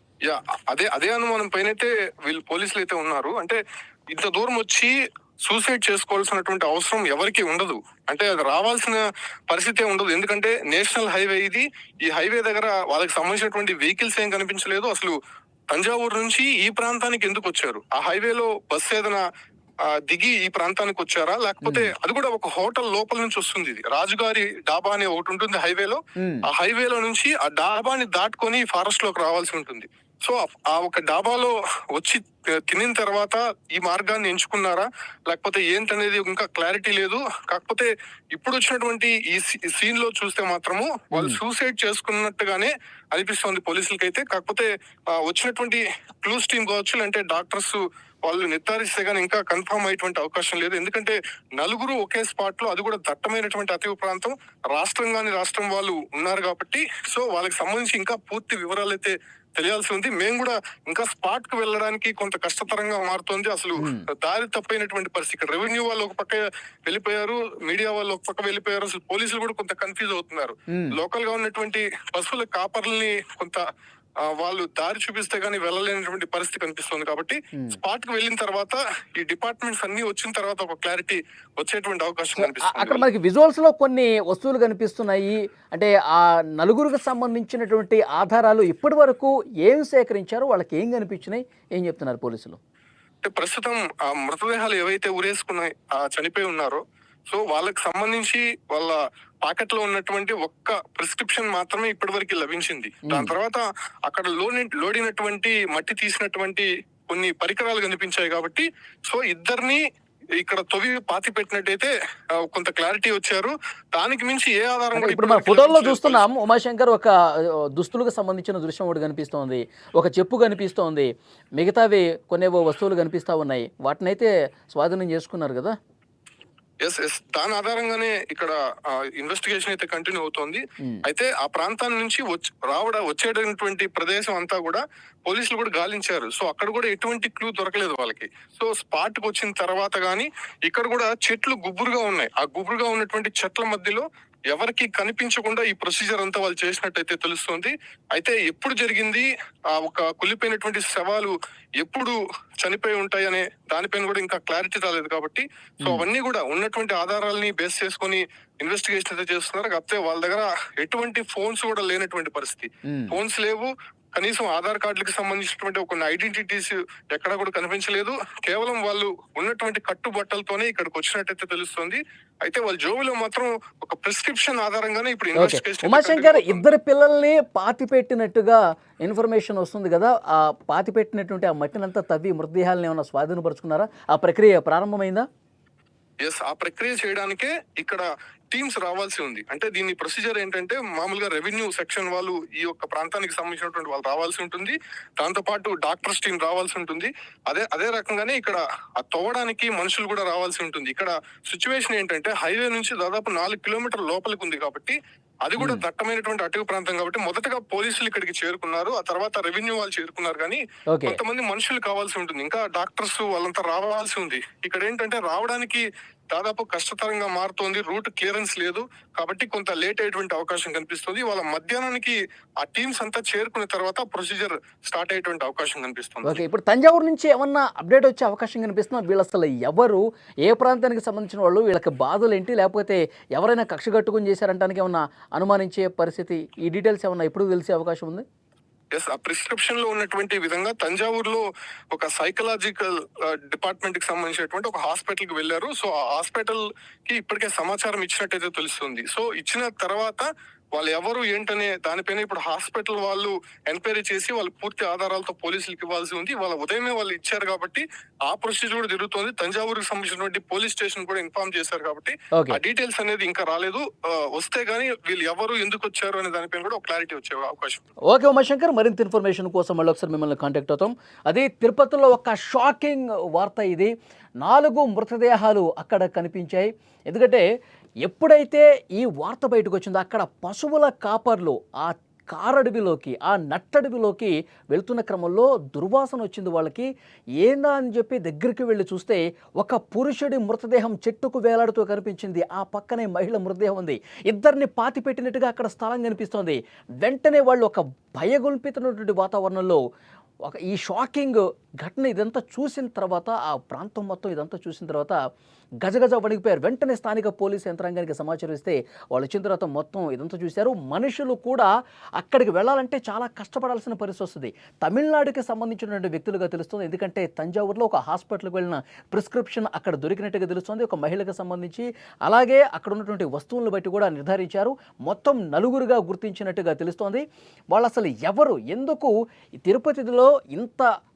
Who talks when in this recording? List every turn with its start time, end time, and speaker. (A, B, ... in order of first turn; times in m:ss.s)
0:00.2-0:03.6 A
0:04.1-0:04.9 A
0:05.5-0:15.1 A
0:15.7-0:19.2 A
0:20.1-1:13.6 A
0:21.6-0:21.9 B
0:26.2-0:26.4 B
0:41.1-0:41.4 B
1:03.8-1:04.1 B
1:14.4-1:23.0 A
1:22.4-1:32.6 B
1:33.2-1:49.8 A
1:43.1-1:43.3 B
1:50.4-1:51.9 A
1:52.5-1:56.2 A
1:54.9-1:57.1 B
1:57.8-2:05.7 B
2:06.8-2:56.6 A
2:35.8-2:36.0 B
2:42.9-2:43.1 B
2:55.3-3:05.2 B
3:06.2-3:46.4 A
3:25.6-3:25.8 B
3:30.9-3:31.2 B
3:46.2-3:58.2 B
3:58.9-4:27.8 A
4:28.1-4:37.4 B
4:38.0-4:46.9 B
4:47.4-4:59.8 B
5:00.4-5:05.2 B
5:05.8-5:29.1 B
5:29.6-5:30.9 B